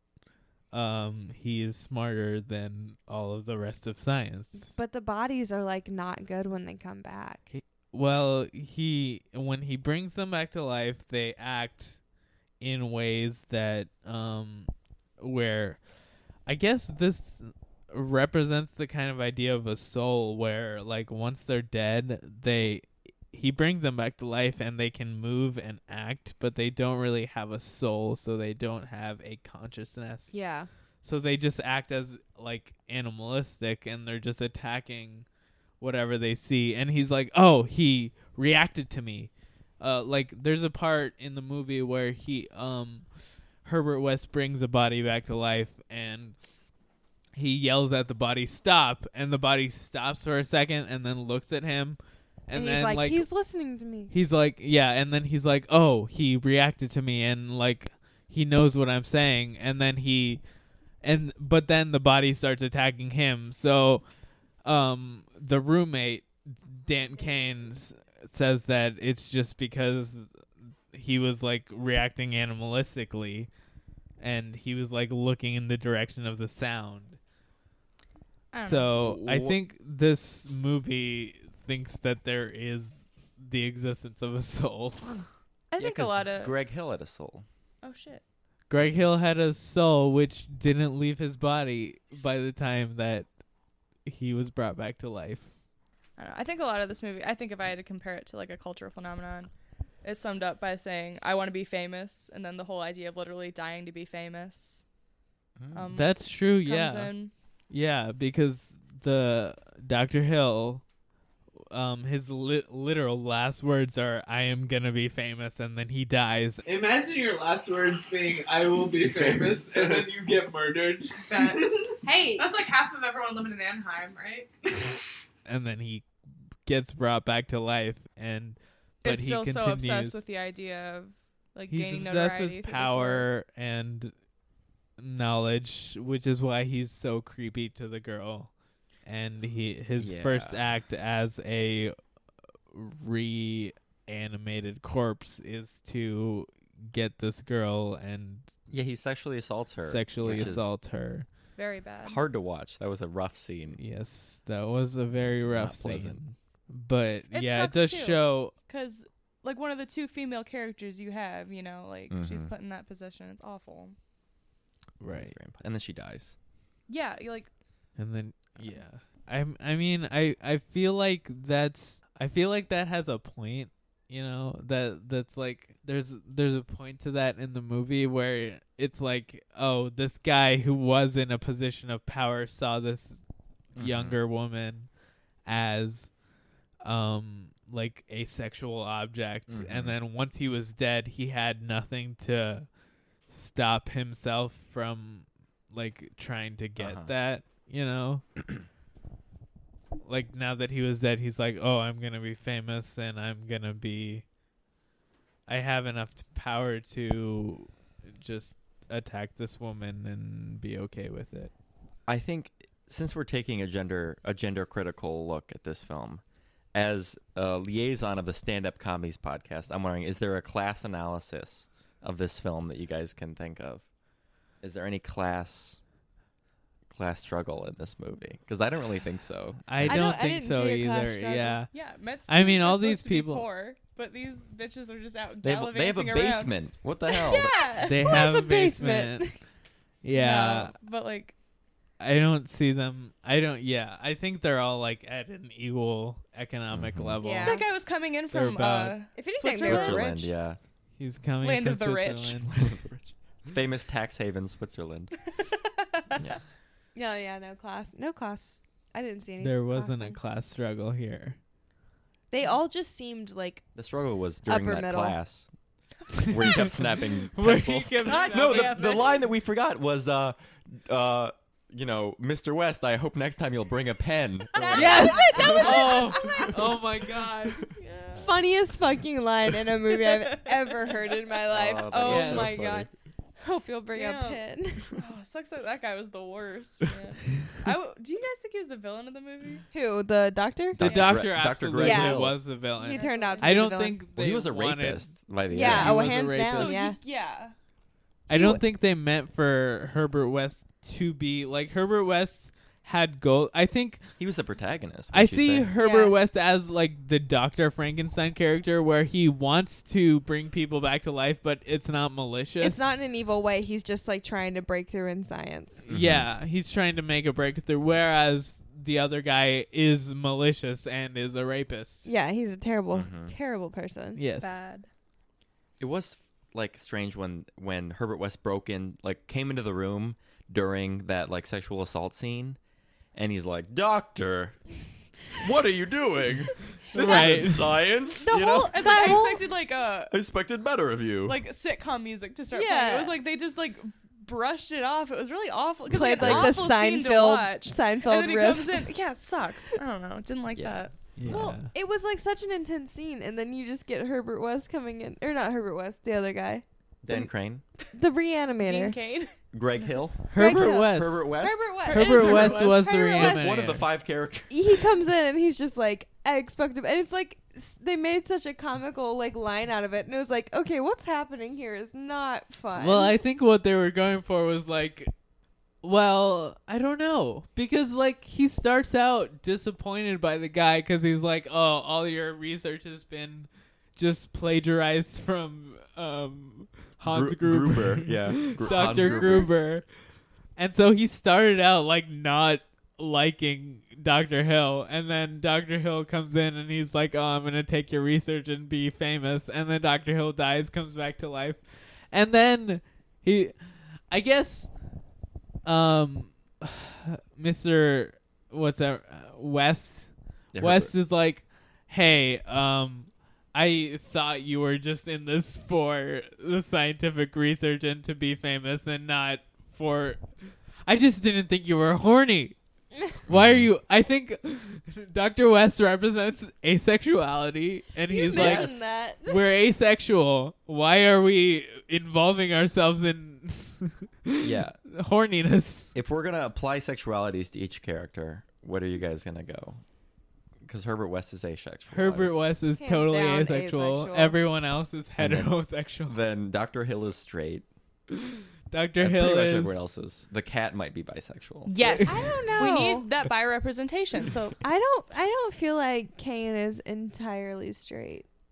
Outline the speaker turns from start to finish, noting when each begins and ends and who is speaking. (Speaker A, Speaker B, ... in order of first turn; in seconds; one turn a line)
Speaker A: 0.7-4.7
Speaker B: 4.6-7.4
Speaker A: 7.5-12.0
Speaker A: 12.6-15.8
Speaker A: 16.5-30.3
Speaker B: 30.3-30.7
Speaker A: 31.0-35.2
Speaker A: 35.8-43.1
Speaker A: 43.6-46.4
Speaker A: 47.4-53.3
Speaker B: 52.5-54.1
Speaker A: 54.1-60.4
Speaker A: 61.0-64.0
Speaker A: 64.6-73.5
Speaker A: 74.2-77.2
Speaker C: 78.5-78.9
Speaker A: 78.6-85.3
Speaker D: 79.0-79.6
Speaker C: 85.7-86.5
Speaker D: 85.8-87.5
Speaker C: 87.8-88.2
Speaker A: 88.7-93.3
Speaker A: 94.0-95.5
Speaker C: 96.2-99.5
Speaker C: 100.0-104.8
Speaker D: 105.6-105.9
Speaker C: 105.7-107.3
Speaker A: 105.9-107.1
Speaker A: 107.7-110.8
Speaker A: 111.7-116.6
Speaker E: 116.6-122.0
Speaker F: 121.2-124.9
Speaker A: 125.5-126.1
Speaker A: 126.7-130.2
Speaker C: 129.0-133.3
Speaker A: 131.7-134.1
Speaker A: 135.0-138.5
Speaker A: 139.1-142.0
Speaker D: 140.0-140.6
Speaker A: 142.7-148.5
Speaker D: 148.7-150.7
Speaker A: 149.8-151.3
Speaker C: 151.6-152.2
Speaker D: 152.0-153.8
Speaker A: 153.8-158.6
Speaker D: 155.2-156.2
Speaker C: 157.3-164.0
Speaker D: 162.1-162.5
Speaker A: 165.0-165.4
Speaker D: 165.0-166.4
Speaker C: 166.9-167.5
Speaker A: 168.0-183.2
Speaker A: 183.7-184.9
Speaker D: 183.8-184.2
Speaker A: 185.4-186.1
Speaker A: 186.8-192.7
Speaker D: 189.5-190.0
Speaker A: 193.3-198.2
Speaker D: 196.8-197.1
Speaker A: 200.1-204.2
Speaker A: 205.5-211.5
Speaker D: 212.1-216.2
Speaker D: 216.7-223.9
Speaker D: 224.6-225.8
Speaker D: 226.9-230.0
Speaker A: 229.7-231.7
Speaker B: 229.8-231.6
Speaker C: 231.7-236.6
Speaker A: 232.3-233.5
Speaker D: 235.4-237.7
Speaker C: 237.1-238.2
Speaker A: 237.8-239.3
Speaker B: 238.1-239.4
Speaker A: 240.0-240.8
Speaker C: 240.1-241.3
Speaker A: 242.0-247.7
Speaker D: 246.7-247.2
Speaker B: 247.2-247.6
Speaker C: 247.4-250.2
Speaker A: 248.3-249.1
Speaker B: 249.2-250.3
Speaker D: 249.5-250.6
Speaker A: 251.0-252.7
Speaker C: 251.4-252.4
Speaker D: 252.5-255.2
Speaker C: 255.4-256.2
Speaker D: 256.2-256.6
Speaker B: 256.9-260.2
Speaker A: 259.4-261.4
Speaker B: 262.3-263.6
Speaker D: 263.8-265.5
Speaker B: 264.5-265.2
Speaker D: 266.2-275.8
Speaker A: 266.3-266.8
Speaker A: 267.3-268.9
Speaker C: 268.1-269.3
Speaker B: 274.6-276.6
Speaker C: 274.6-276.5
Speaker A: 274.7-277.7
Speaker C: 277.7-278.3
Speaker B: 278.2-282.9
Speaker C: 280.0-281.0
Speaker D: 281.5-282.9
Speaker A: 282.0-282.6
Speaker B: 283.4-284.9
Speaker C: 283.9-284.4
Speaker C: 285.0-289.6
Speaker B: 289.7-290.8
Speaker D: 290.7-292.4
Speaker A: 290.8-296.8
Speaker C: 290.9-291.1
Speaker B: 291.8-292.2
Speaker B: 292.8-294.0
Speaker C: 292.8-293.6
Speaker D: 294.1-296.2
Speaker B: 295.5-297.0
Speaker C: 296.5-297.6
Speaker A: 298.3-304.0
Speaker B: 298.3-298.6
Speaker D: 304.2-305.7
Speaker A: 305.1-312.9
Speaker B: 305.8-306.1
Speaker B: 312.6-315.8
Speaker A: 315.8-322.1
Speaker D: 315.9-316.3
Speaker B: 322.1-324.2
Speaker D: 322.9-323.3
Speaker A: 324.2-324.6
Speaker C: 324.4-324.9
Speaker D: 325.8-332.6
Speaker D: 333.1-334.6
Speaker D: 335.4-339.3
Speaker B: 336.9-337.5
Speaker A: 337.0-337.9
Speaker B: 338.2-339.4
Speaker C: 338.4-340.1
Speaker D: 340.1-341.4
Speaker C: 341.3-350.9
Speaker B: 342.5-343.2
Speaker B: 345.9-348.9
Speaker D: 346.2-346.6
Speaker D: 350.6-351.5
Speaker A: 351.2-351.7
Speaker B: 351.3-357.3
Speaker D: 357.0-357.6
Speaker B: 357.9-359.0
Speaker C: 358.6-360.0
Speaker D: 359.5-362.5
Speaker A: 360.3-363.9
Speaker B: 360.4-363.5
Speaker C: 361.8-363.1
Speaker D: 363.2-364.5
Speaker B: 364.5-373.2
Speaker A: 372.8-375.1
Speaker A: 375.8-389.9
Speaker D: 387.0-389.5
Speaker B: 388.6-389.5
Speaker A: 390.6-404.7
Speaker A: 405.6-420.2
Speaker D: 410.5-410.9
Speaker A: 420.9-422.6
Speaker A: 423.3-435.9
Speaker D: 423.3-423.7
Speaker B: 428.1-429.4
Speaker D: 428.3-428.9
Speaker D: 434.4-434.8
Speaker D: 435.9-439.8
Speaker D: 440.6-442.5
Speaker A: 441.9-446.2
Speaker B: 442.8-444.4
Speaker D: 445.2-447.7
Speaker A: 448.7-449.8
Speaker D: 449.0-452.1
Speaker C: 451.7-454.6
Speaker B: 452.1-453.1
Speaker B: 454.6-458.3